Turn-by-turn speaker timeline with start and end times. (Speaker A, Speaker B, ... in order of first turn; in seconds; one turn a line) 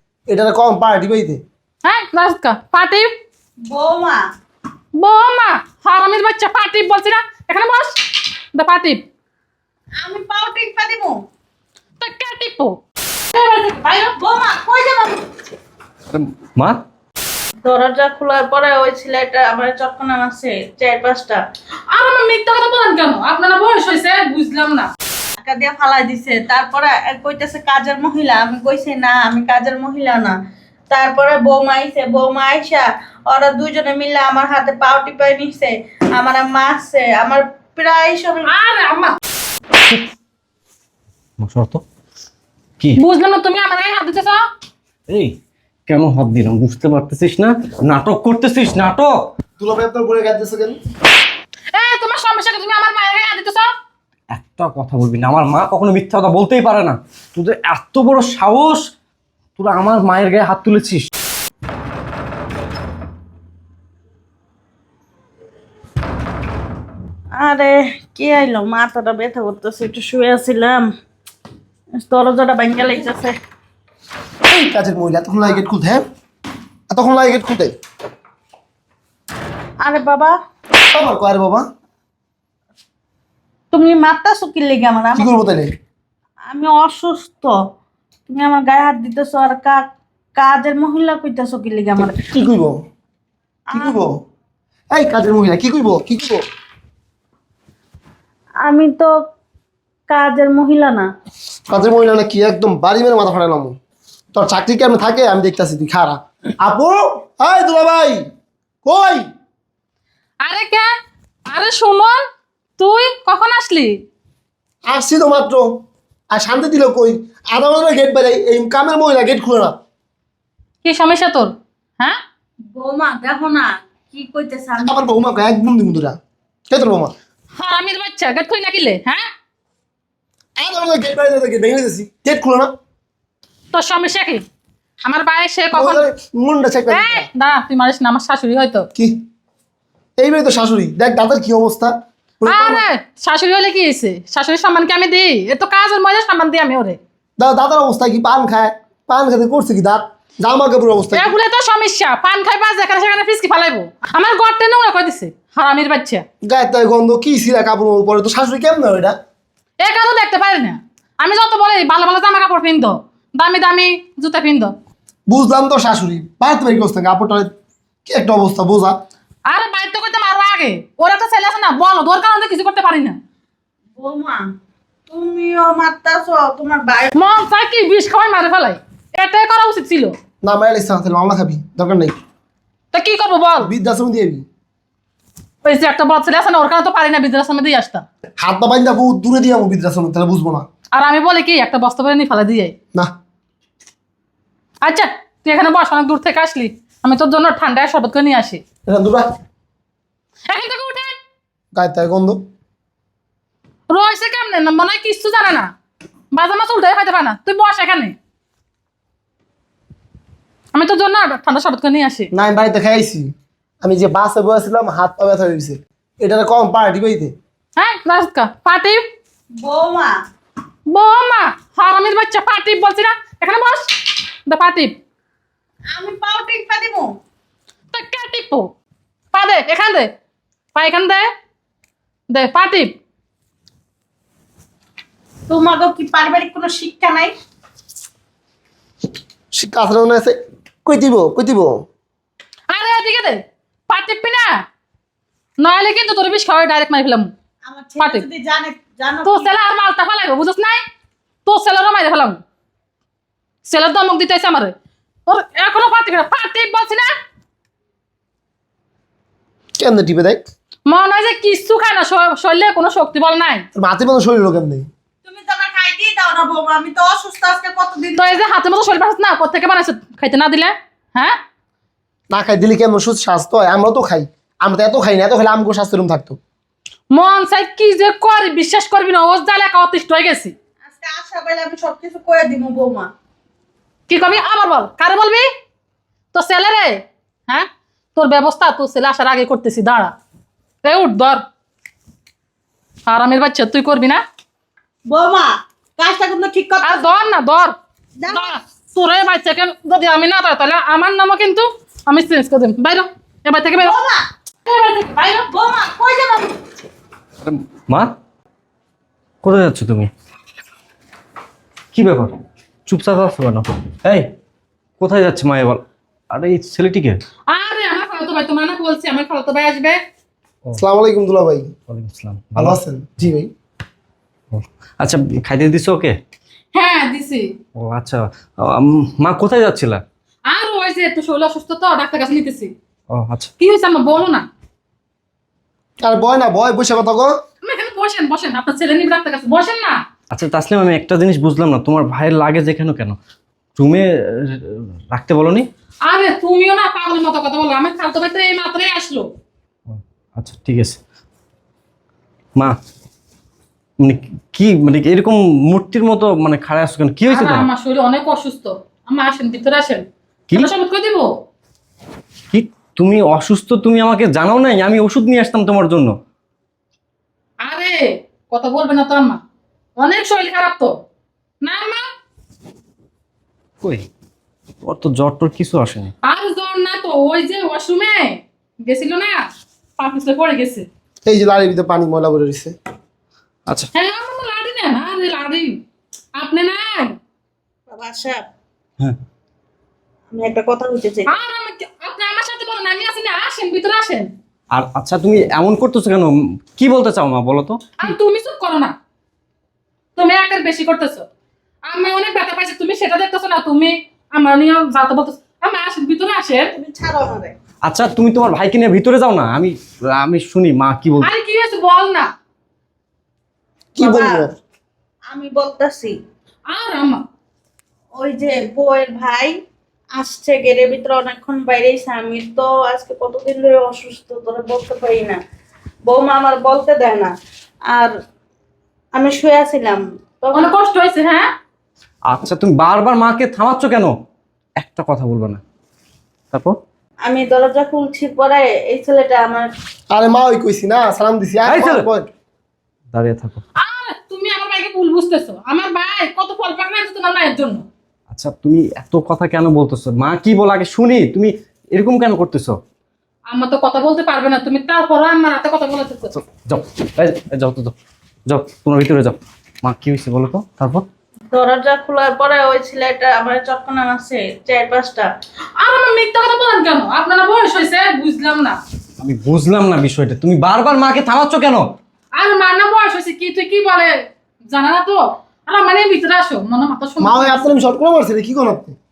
Speaker A: 0.3-1.4
Speaker B: 1.8-3.1
Speaker C: 3.7-4.2
Speaker B: 5.0-9.0
Speaker C: 10.0-11.1
Speaker B: 12.0-12.8
Speaker C: 13.3-15.2
Speaker D: 16.1-16.8
Speaker C: 17.6-21.4
Speaker B: 21.9-24.9
Speaker C: 25.4-30.4
Speaker C: 30.9-38.5
Speaker B: 38.5-39.1
Speaker D: 39.8-40.0
Speaker D: 41.4-41.8
Speaker B: 43.0-44.4
Speaker D: 45.1-45.3
Speaker D: 45.9-49.3
Speaker A: 49.6-50.8
Speaker B: 51.7-53.7
Speaker D: 54.3-58.8
Speaker D: 59.6-61.1
Speaker C: 67.3-70.9
Speaker C: 72.0-73.4
Speaker A: 74.5-76.0
Speaker A: 76.9-77.7
Speaker C: 79.8-80.3
Speaker A: 80.9-81.7
Speaker C: 83.7-85.3
Speaker A: 85.1-85.7
Speaker C: 86.5-87.5
Speaker C: 88.3-89.8
Speaker C: 90.3-92.1
Speaker A: 92.0-92.8
Speaker C: 93.7-94.0
Speaker A: 93.7-94.2
Speaker A: 94.9-96.4
Speaker C: 98.6-99.1
Speaker C: 100.1-101.0
Speaker A: 101.7-103.7
Speaker A: 104.3-108.2
Speaker A: 108.8-109.2
Speaker B: 110.4-110.9
Speaker B: 111.5-112.2
Speaker B: 112.8-114.0
Speaker A: 114.9-115.7
Speaker A: 116.3-119.8
Speaker B: 120.8-122.2
Speaker C: 122.7-125.1
Speaker A: 124.8-126.2
Speaker A: 126.7-127.1
Speaker B: 127.6-129.3
Speaker A: 130.6-132.7
Speaker B: 133.7-134.4
Speaker B: 135.0-136.0
Speaker A: 135.7-137.3
Speaker B: 136.9-138.9
Speaker A: 140.2-142.8
Speaker B: 142.5-147.0
Speaker A: 147.4-151.3
Speaker B: 151.1-156.2
Speaker A: 156.4-159.2
Speaker B: 159.8-164.7
Speaker A: 165.3-167.5
Speaker A: 168.1-168.9
Speaker B: 169.5-173.2
Speaker C: 174.0-174.4
Speaker C: 175.1-177.1
Speaker B: 177.2-180.1
Speaker A: 180.4-182.1
Speaker B: 182.9-183.7
Speaker A: 183.6-184.4
Speaker B: 185.6-188.0
Speaker A: 188.4-190.7
Speaker B: 190.9-192.7
Speaker B: 194.8-198.6
Speaker A: 198.9-199.3
Speaker B: 200.5-201.2
Speaker A: 201.7-202.4
Speaker B: 203.9-205.7
Speaker B: 206.3-208.2
Speaker B: 210.7-212.3
Speaker A: 212.3-213.3
Speaker A: 213.8-217.3
Speaker B: 217.8-219.0
Speaker C: 219.6-220.1
Speaker B: 220.9-223.9
Speaker B: 224.5-224.9
Speaker C: 225.9-227.1
Speaker B: 227.9-228.7
Speaker B: 229.3-230.1
Speaker B: 230.7-231.3
Speaker B: 232.3-232.9
Speaker C: 235.5-237.3
Speaker A: 239.5-241.8
Speaker B: 242.7-244.5
Speaker B: 245.6-247.3
Speaker C: 247.6-249.5
Speaker B: 248.0-248.2
Speaker B: 249.2-250.8
Speaker B: 251.4-252.4
Speaker B: 253.6-254.7
Speaker B: 255.3-257.1
Speaker A: 259.8-260.4
Speaker B: 260.9-263.6
Speaker A: 263.7-264.9
Speaker C: 265.2-268.3
Speaker B: 268.1-271.4
Speaker A: 272.3-276.4
Speaker B: 277.1-280.5
Speaker C: 280.8-283.1
Speaker B: 284.1-285.4
Speaker B: 286.3-290.1
Speaker B: 290.8-291.4
Speaker B: 293.1-294.2
Speaker C: 295.1-297.1
Speaker B: 296.8-297.7
Speaker C: 298.2-298.5
Speaker B: 298.3-303.9
Speaker C: 303.8-306.5
Speaker D: 307.4-308.1
Speaker D: 309.4-310.1
Speaker D: 311.9-312.3
Speaker D: 312.9-314.3
Speaker D: 315.0-315.8
Speaker D: 316.3-317.2
Speaker B: 317.5-320.0
Speaker A: 320.8-321.7
Speaker D: 321.9-322.8
Speaker A: 322.6-323.5
Speaker D: 324.5-326.2
Speaker B: 326.7-327.5
Speaker D: 327.8-330.0
Speaker B: 330.5-332.7
Speaker D: 333.1-333.5
Speaker B: 333.6-334.5
Speaker A: 336.0-337.3
Speaker B: 337.6-340.0
Speaker D: 340.3-343.2
Speaker D: 343.8-345.7
Speaker B: 346.1-349.3
Speaker D: 349.9-351.0
Speaker D: 354.0-357.7
Speaker B: 357.3-361.3
Speaker D: 362.5-366.1
Speaker B: 367.6-369.4
Speaker B: 370.0-370.9
Speaker B: 371.6-372.1
Speaker D: 373.8-374.1
Speaker D: 374.8-376.1
Speaker B: 376.2-379.5
Speaker B: 380.0-380.9
Speaker A: 381.2-382.7
Speaker B: 383.9-385.8
Speaker B: 386.4-387.2
Speaker C: 387.9-388.4
Speaker C: 390.3-391.3
Speaker B: 391.3-394.3
Speaker D: 394.7-397.8
Speaker B: 398.0-398.9
Speaker B: 400.1-401.3
Speaker B: 401.9-406.7
Speaker C: 406.7-407.5
Speaker D: 407.8-411.3
Speaker B: 411.2-412.3
Speaker C: 413.9-414.5
Speaker A: 414.0-414.5
Speaker C: 415.3-416.1
Speaker B: 416.7-417.2
Speaker C: 418.2-419.5
Speaker C: 420.2-425.4
Speaker C: 426.1-427.3
Speaker C: 429.1-430.7
Speaker B: 430.5-431.5
Speaker D: 432.3-434.1
Speaker D: 434.8-435.6
Speaker D: 436.5-436.8
Speaker C: 437.2-439.7
Speaker A: 440.1-442.3
Speaker D: 441.6-442.1
Speaker D: 443.1-443.6
Speaker B: 443.8-447.8
Speaker D: 448.3-452.8
Speaker B: 453.5-456.4
Speaker D: 456.3-457.9
Speaker D: 458.5-461.0
Speaker C: 461.5-465.3
Speaker B: 465.8-468.8
Speaker D: 469.2-471.9
Speaker B: 472.4-474.1
Speaker B: 474.7-477.6
Speaker A: 477.2-478.9